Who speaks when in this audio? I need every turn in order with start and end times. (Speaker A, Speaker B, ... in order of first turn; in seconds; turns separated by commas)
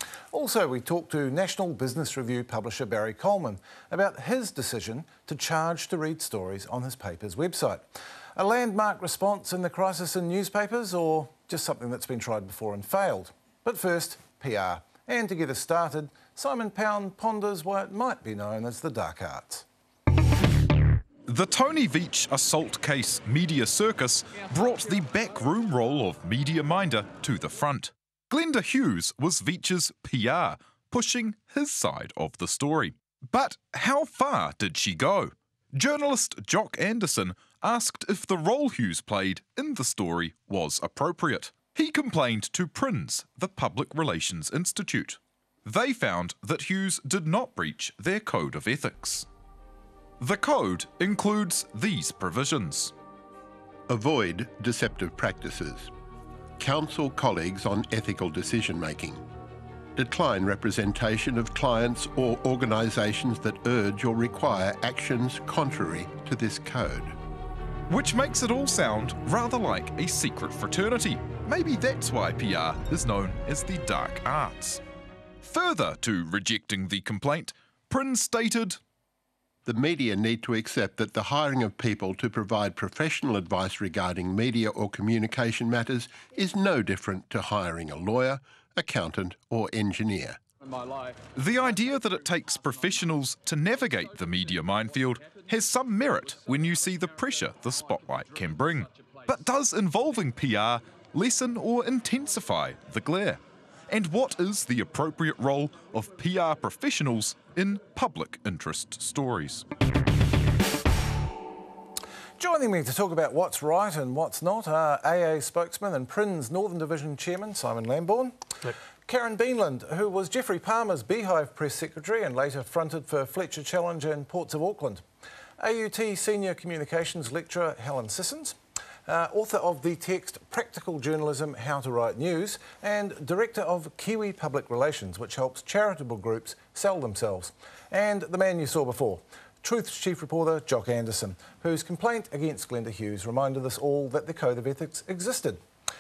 Speaker A: 0.3-7.8, Speaker A: 8.4-19.6, Speaker B: 21.3-49.3, Speaker B: 50.2-52.9, Speaker C: 53.9-55.9, Speaker C: 56.6-59.2, Speaker C: 60.0-67.2, Speaker B: 67.9-74.8, Speaker B: 75.4-78.8, Speaker C: 79.7-90.4, Speaker B: 91.3-109.6, Speaker A: 112.4-118.4, Speaker A: 119.1-125.0, Speaker A: 125.6-145.6